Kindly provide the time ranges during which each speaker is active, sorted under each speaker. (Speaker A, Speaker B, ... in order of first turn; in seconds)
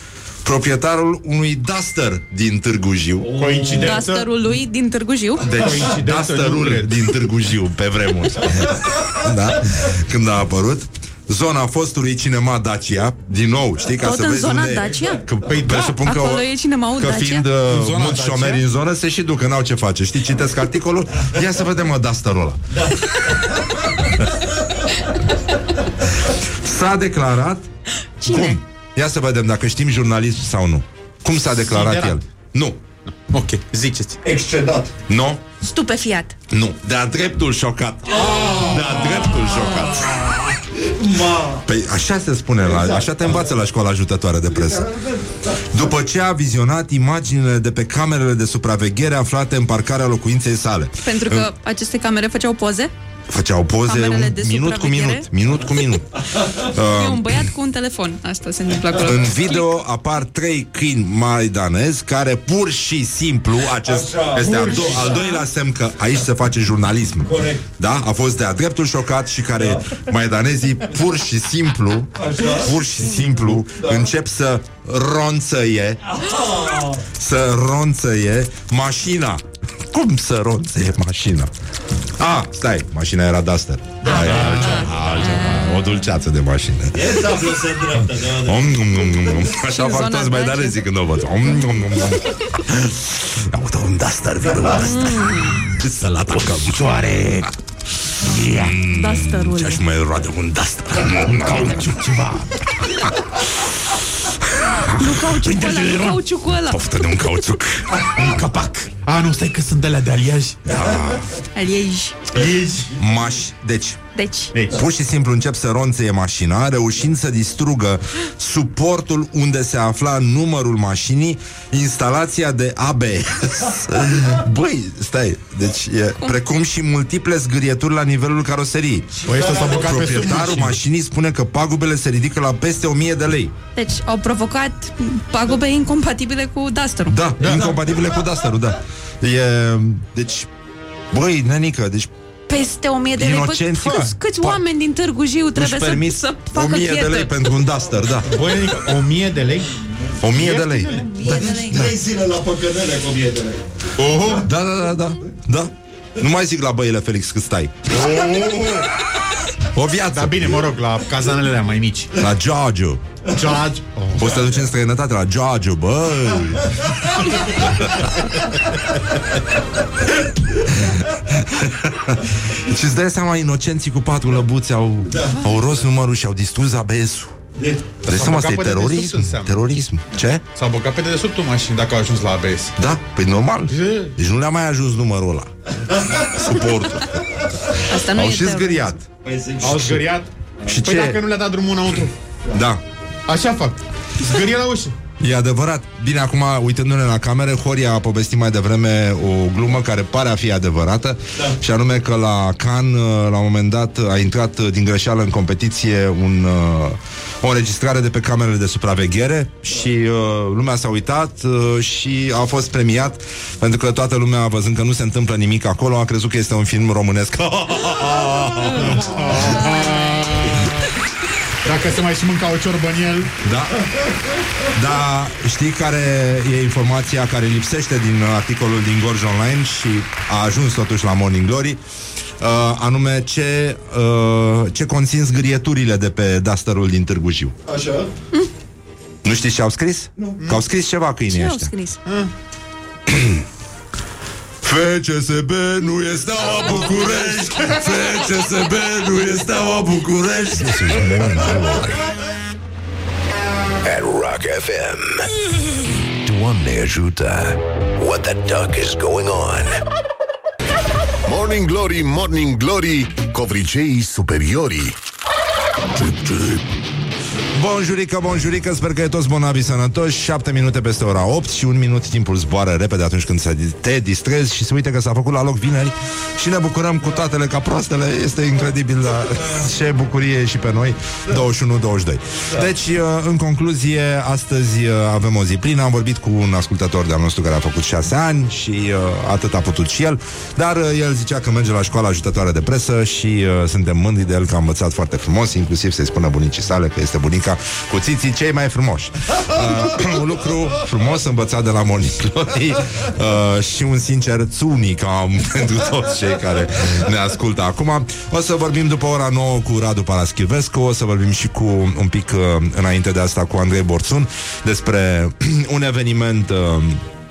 Speaker A: 0.5-3.3, 5.4-16.5, 17.0-22.6, 26.3-27.7, 28.2-32.8, 35.1-35.4, 36.5-40.1, 41.6-44.9, 45.7-51.5, 53.3-57.4, 59.0-76.0, 77.1-81.5, 82.2-87.2, 88.5-97.5, 98.3-102.0, 104.5-105.3, 106.7-108.0, 110.7-111.3, 112.9-114.0, 114.7-133.5, 137.1-140.5, 141.1-142.1, 143.2-144.6, 145.6-148.4, 150.2-151.0, 154.3-157.9, 159.7-160.6, 162.2-163.0, 164.2-166.8, 167.5-168.0, 170.7-177.4, 178.1-180.4, 182.8-185.5, 186.3-187.2, 188.1-189.0, 189.6-190.1, 190.7-191.2, 192.5-192.8, 195.2-219.1, 223.4-223.8, 224.7-231.8, 232.4-237.5, 239.2-241.7, 243.1-243.4, 244.6-250.9, 267.6-317.0
Speaker B: 3.3-4.3, 5.6-7.1, 15.4-15.7, 17.7-18.6, 31.7-32.2, 33.1-34.2, 38.2-38.8, 84.5-84.8, 101.4-102.5, 105.3-106.2, 108.0-110.6, 112.3-112.9, 114.5-114.8, 129.2-130.8, 137.4-137.8, 148.3-149.7, 150.3-151.0, 154.0-154.5, 157.9-158.9, 160.1-162.1, 163.3-164.7, 178.1-179.6, 180.6-182.7, 183.7-184.1, 189.6-192.1, 193.3-194.9, 218.1-220.9, 221.6-223.3, 242.1-242.3
Speaker C: 3.4-4.0, 34.2-34.9, 40.9-41.6, 44.7-45.4, 63.8-65.1, 67.3-67.6, 72.2-72.7, 76.3-76.8, 87.0-88.7, 151.2-153.7, 189.2-189.9, 237.7-238.1
Speaker D: 3.7-5.5, 14.0-17.5, 28.2-28.6, 35.6-36.4, 39.4-39.9, 51.0-52.9, 53.9-55.3, 56.9-59.9, 65.0-65.4, 84.1-85.6, 89.6-90.9, 94.8-95.6, 98.8-99.8, 105.0-106.8, 111.5-112.3, 114.2-114.5, 133.8-137.2, 142.5-147.3, 150.9-152.0, 187.9-189.0, 241.3-242.0
Speaker E: 250.6-252.0, 253.8-255.3, 256.2-259.8
Speaker F: 261.3-265.0, 265.9-266.6